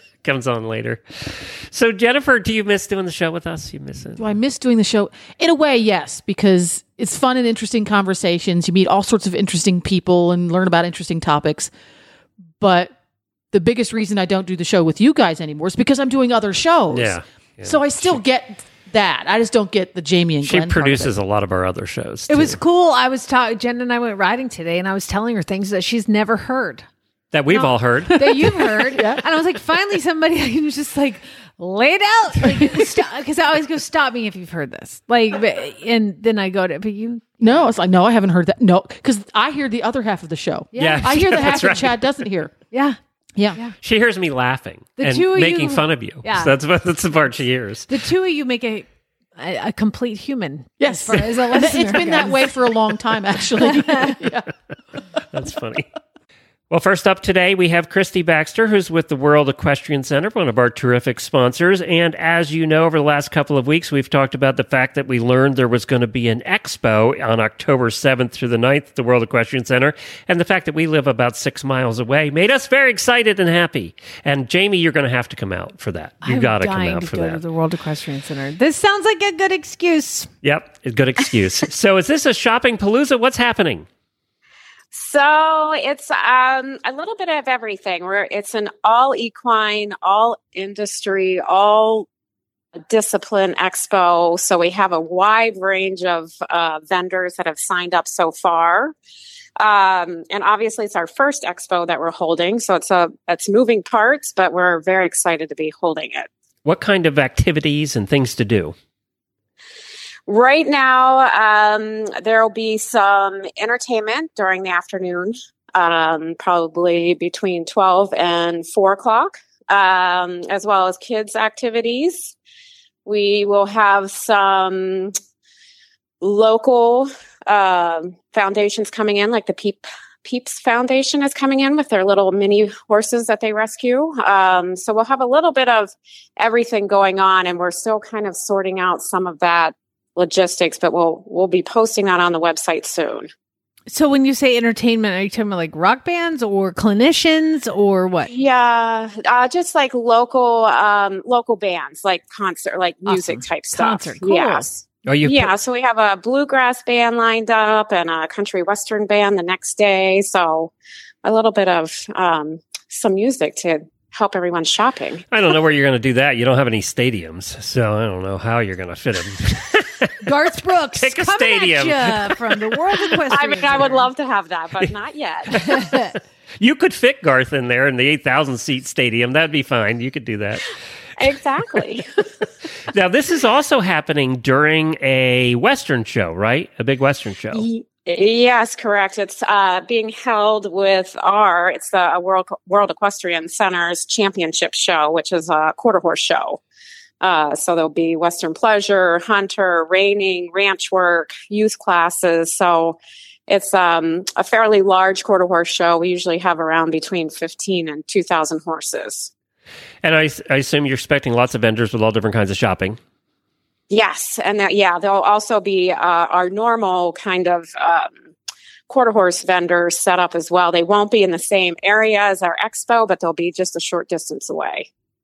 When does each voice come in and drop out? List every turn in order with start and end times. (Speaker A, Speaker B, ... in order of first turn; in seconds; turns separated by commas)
Speaker A: 0.2-4.2, Speaker B: 4.2-11.7, Speaker B: 12.6-12.9, Speaker B: 13.5-21.1, Speaker A: 16.9-17.8, Speaker A: 20.4-22.6, Speaker C: 22.3-26.9, Speaker A: 27.3-28.7, Speaker C: 27.5-37.6, Speaker B: 28.9-29.2, Speaker B: 37.4-42.5, Speaker C: 40.7-41.5, Speaker A: 40.8-42.1, Speaker C: 42.7-43.0, Speaker A: 43.8-47.9, Speaker C: 45.0-46.5, Speaker C: 47.9-52.5, Speaker B: 50.8-54.5, Speaker C: 53.6-54.1, Speaker A: 55.3-55.9, Speaker A: 56.7-77.4, Speaker C: 76.2-80.3, Speaker A: 80.4-83.9, Speaker D: 84.9-92.1, Speaker D: 92.9-98.9, Speaker D: 99.6-106.3, Speaker A: 106.7-108.8, Speaker D: 110.3-122.3, Speaker D: 123.0-125.2, Speaker D: 126.2-143.3, Speaker C: 143.9-148.3, Speaker D: 148.3-154.7, Speaker C: 153.1-154.8, Speaker A: 155.1-155.5, Speaker D: 155.2-160.7, Speaker D: 161.2-165.2, Speaker A: 165.3-170.1, Speaker C: 170.2-174.1, Speaker A: 170.9-172.5, Speaker D: 173.3-175.9, Speaker C: 175.7-176.1, Speaker A: 176.6-180.7, Speaker D: 181.2-182.1, Speaker A: 182.9-187.7, Speaker D: 187.5-196.6, Speaker D: 197.2-209.3, Speaker A: 210.0-213.0, Speaker D: 213.9-218.2, Speaker D: 218.9-224.9